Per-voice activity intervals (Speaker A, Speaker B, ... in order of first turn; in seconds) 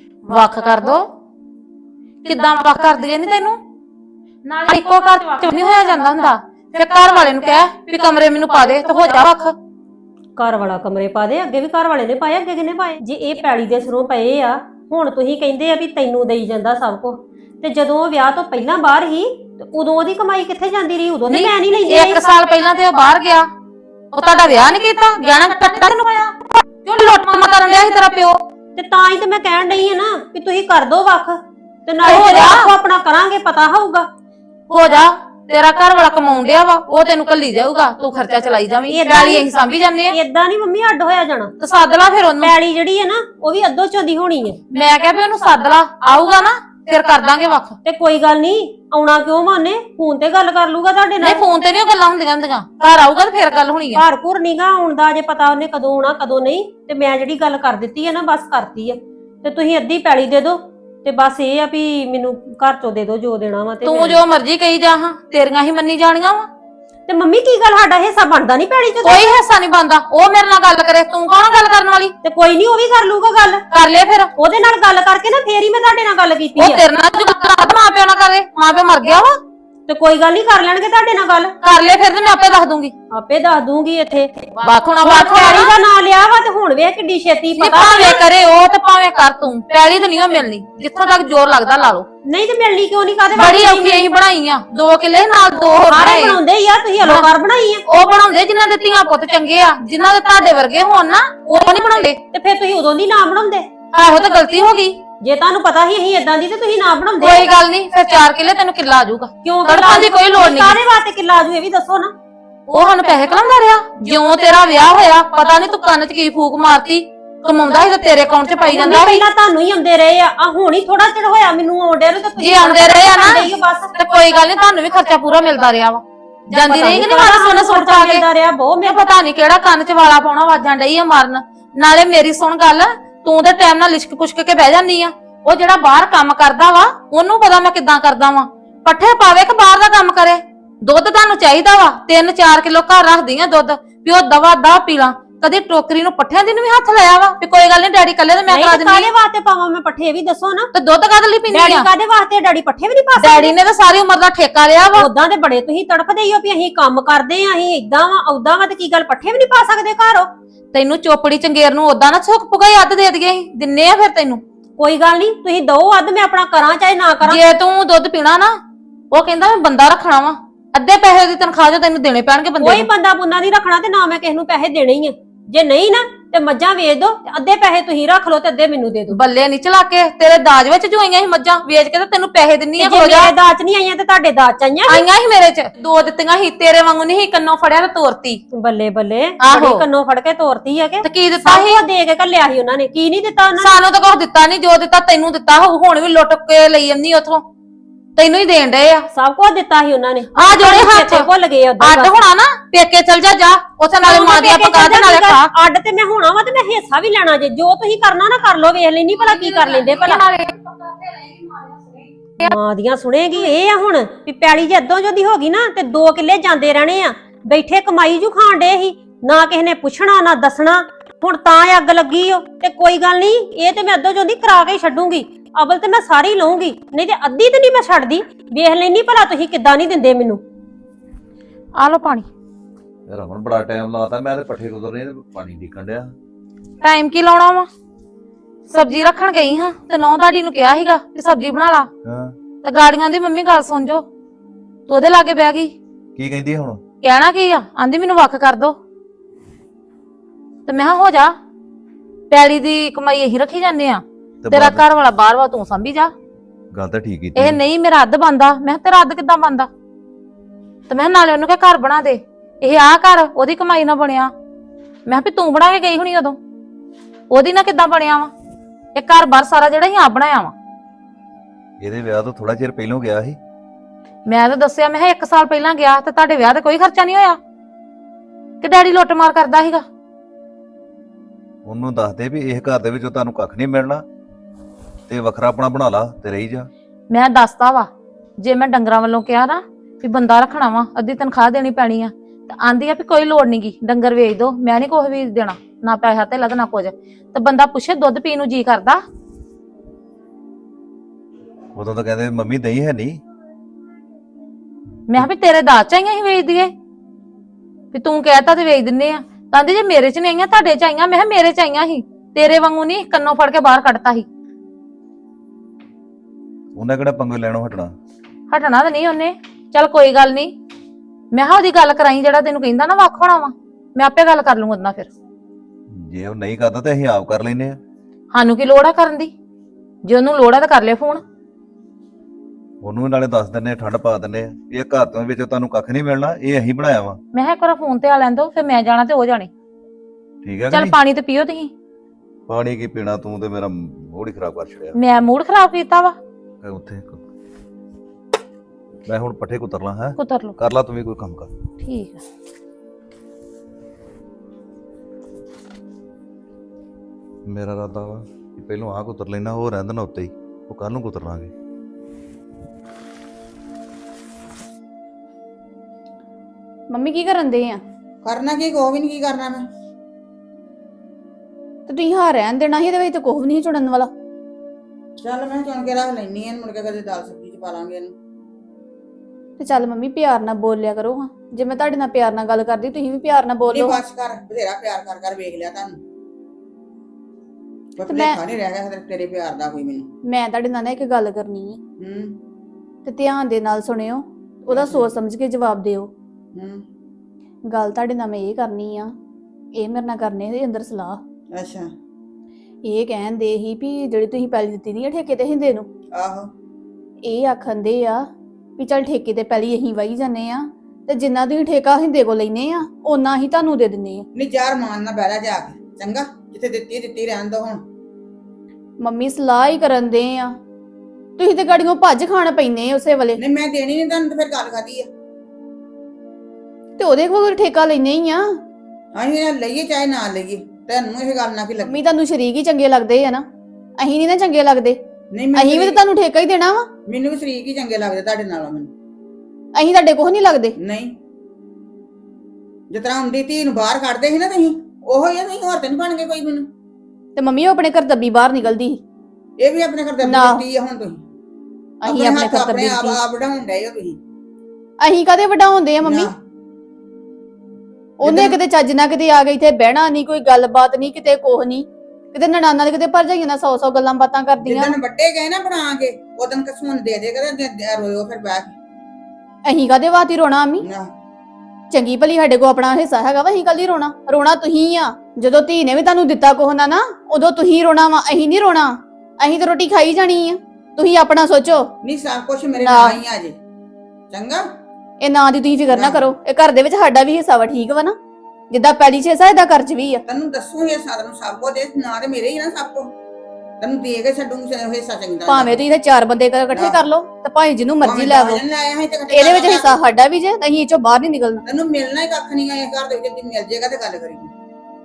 Speaker A: 0.3-1.1, 2.2-3.6, 4.5-9.5, 21.3-23.5, 24.1-28.4, 32.0-32.7, 34.7-40.2, 41.6-42.5, 44.7-47.8, 51.2-54.0, 63.8-66.5, 69.0-72.1, 73.7-74.3, 76.6-79.4, 81.6-82.9, 84.6-85.7, 87.6-92.1, 93.3-96.4, 97.0-97.3, 97.9-102.2, 103.9-105.0, 107.2-110.8, 112.7-119.2, 122.4-128.3, 128.8-149.1, 150.7-151.9, 153.2-155.1, 160.7-164.4, 167.2-168.5, 169.1-172.9, 179.1-183.3, 184.9-188.4, 189.4-189.8, 191.0-191.8, 193.6-197.4, 198.2-199.1, 200.3-201.3, 201.8-205.5, 209.2-212.6, 231.8-232.3, 236.8-237.7, 238.7-241.9, 242.6-244.0, 244.9-245.7, 247.0-248.8, 250.7-251.3, 252.3-256.1, 257.4-259.7, 260.9-264.3, 265.1-266.4, 267.3-268.3, 268.9-270.5, 274.3-277.4, 278.6-279.9, 287.1-287.9, 288.4-299.0, 305.1-306.7, 307.9-314.3, 318.5-320.5, 321.3-325.1, 328.3-329.3, 330.0-331.2, 337.3-339.5, 340.7-341.7, 344.9-346.2, 350.2-350.5, 351.8-352.2
Speaker B: 10.4-22.2, 28.8-34.1, 38.9-39.5, 40.1-41.5, 42.4-44.6, 47.9-51.5, 53.9-64.2, 67.1-69.3, 72.2-73.6, 74.4-76.8, 79.9-81.5, 83.1-88.2, 92.2-94.1, 95.9-97.8, 101.5-103.7, 105.2-107.5, 109.4-112.1, 118.7-123.9, 126.5-129.0, 148.5-150.7, 151.5-153.6, 154.9-160.3, 164.8-167.4, 172.6-179.2, 182.8-185.1, 188.5-193.8, 199.1-202.2, 204.0-210.2, 212.4-230.4
Speaker C: 233.1-236.1, 242.1-242.3, 246.2-246.8, 254.4-254.8, 256.7-257.6, 271.8-273.4, 281.6-284.0, 285.1-286.7, 301.8-303.2, 316.8-317.9, 325.9-327.8, 332.8-337.2, 340.4-341.0, 342.5-344.9, 346.6-347.2, 349.1-351.5, 357.5-361.5
Speaker D: 366.9-367.8, 371.9-374.1, 379.6-384.0, 388.1-388.4, 390.3-391.8, 393.1-396.1, 397.7-399.1, 399.8-401.2, 402.9-405.9, 407.2-408.2, 408.8-414.3, 419.0-420.6, 421.4-423.4, 427.0-428.6, 431.8-433.4, 434.0-435.0, 435.6-436.9, 439.8-440.8, 447.4-449.0, 450.2-450.6, 452.0-453.2, 455.0-456.3, 458.2-465.0, 469.7-470.9, 471.9-481.9, 482.8-483.2, 485.2-488.2, 488.7-490.2, 495.5-498.6, 499.3-501.6
Speaker E: 368.2-369.7, 375.2-378.1, 383.7-386.0, 388.0-390.1, 392.0-392.4, 394.7-395.1, 396.5-396.9, 401.5-401.9, 406.1-406.5, 414.4-417.8, 423.4-425.1, 429.1-432.0, 435.3-436.0, 437.1-438.9, 440.8-441.2, 442.9-446.7, 449.6-451.2, 452.1-454.2, 456.0-456.4, 458.2-458.6, 464.6-468.8, 470.8-471.1, 482.0-483.6, 484.3-484.7, 485.9-486.3, 490.3-493.1, 493.8-495.8, 496.7-497.0, 498.0-500.0, 501.7-504.5